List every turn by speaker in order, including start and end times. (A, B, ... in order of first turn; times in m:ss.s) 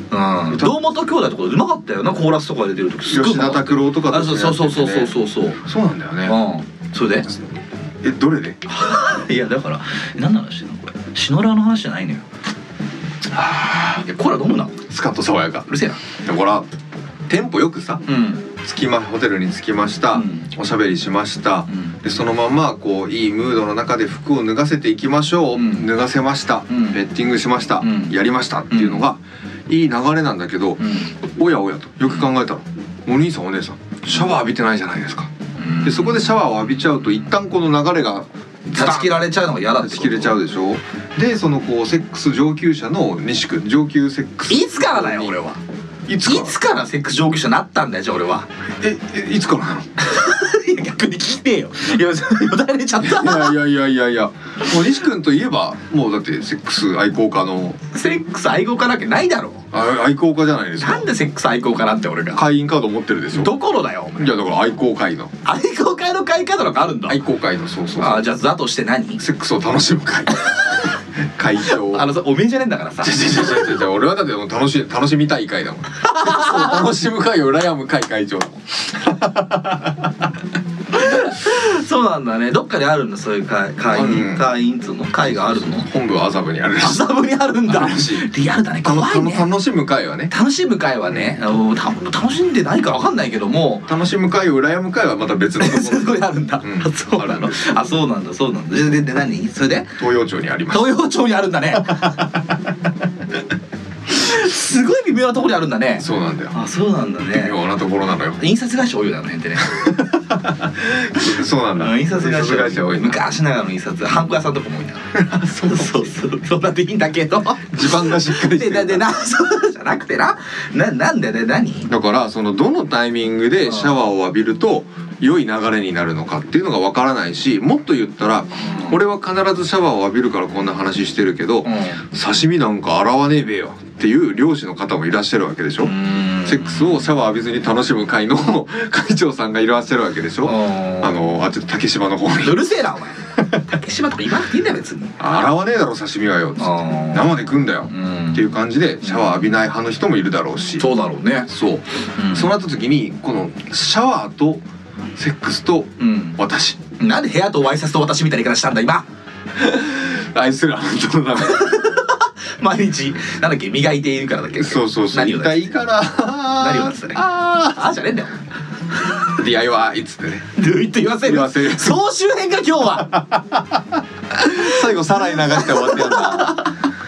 0:00.1-0:05.6 A
0:00.5-0:00.8 B
0:03.1-0:06.4 B
0:06.2-0:07.3 A
0:08.0-0:08.6 B
0:08.7-0:12.2 A
0:13.3-0:14.0 B
0:14.0-0:14.8 A
0:14.9-0:16.7 B
0:15.7-0:16.0 A
0:17.3-0:35.3 B
0:18.1-0:18.4 A
0:20.1-0:20.5 A
0:21.7-0:21.9 A
0:25.5-0:25.9 A
0:26.7-0:27.0 A
0:27.8-0:28.2 A
0:28.7-0:29.0 A
0:30.8-0:31.1 A
0:35.6-0:36.4 A
0:35.8-0:45.4 B
0:38.7-0:40.4 A
0:44.5-0:45.6 A
0:46.0-0:46.6 B
0:46.2-0:48.5 A
0:48.8-0:49.9 B
0:50.0-0:53.6 A
0:53.0-0:57.8 B
0:57.9-0:59.6 A
0:59.7-1:01.1 B
1:00.8-1:02.4 A
1:02.3-1:03.5 B
1:03.3-1:04.3 A
1:04.2-1:05.3 B
1:05.4-1:07.2 A
1:07.0-1:08.2 B
1:08.0-1:09.2 A
1:09.2-1:12.0 B
1:11.8-1:13.5 A
1:13.0-1:20.3 B
1:16.0-1:16.8 A
1:20.9-1:25.9 A
1:23.9-1:24.5 B
1:25.2-1:27.0 B
1:26.8-1:29.5 A
1:27.7-1:28.3 B
1:28.8-1:30.3 B
1:30.3-1:33.9 A
1:31.1-1:31.3 B
1:33.9-1:37.6 B
1:35.6-1:39.9 A
1:40.0-1:40.9 B
1:40.7-1:42.2 A
1:41.8-1:42.4 B
1:44.1-1:47.5 A
1:46.0-1:46.6 B
1:47.3-1:48.4 B
1:48.4-1:50.1 A
1:49.9-1:53.2 B
1:51.8-2:01.9 A
1:55.1-1:56.1 B
1:57.7-1:59.1 B
2:01.9-2:15.9 B
2:03.6-2:03.9 A
2:08.6-2:09.0 A
2:11.6-2:12.0 A
2:15.8-2:17.0 A
2:16.4-2:22.6 B
2:20.4-2:21.2 A
2:22.4-2:25.2 A
2:25.2-2:30.8 B
2:26.6-2:28.4 A
2:29.0-2:29.5 A
2:30.8-2:31.5 A
2:31.5-2:34.6 B
2:32.2-2:32.5 A
2:35.2-2:36.8 B
2:36.0-2:36.4 A
2:37.0-2:39.0 A
2:39.6-2:41.8 B
2:41.4-2:45.7 A
2:44.6-2:47.8 B
2:46.6-2:48.4 A
2:49.3-2:50.5 B
2:50.6-2:53.1 A
2:51.2-2:52.0 B
2:53.0-2:56.6 B
2:55.2-2:56.8 A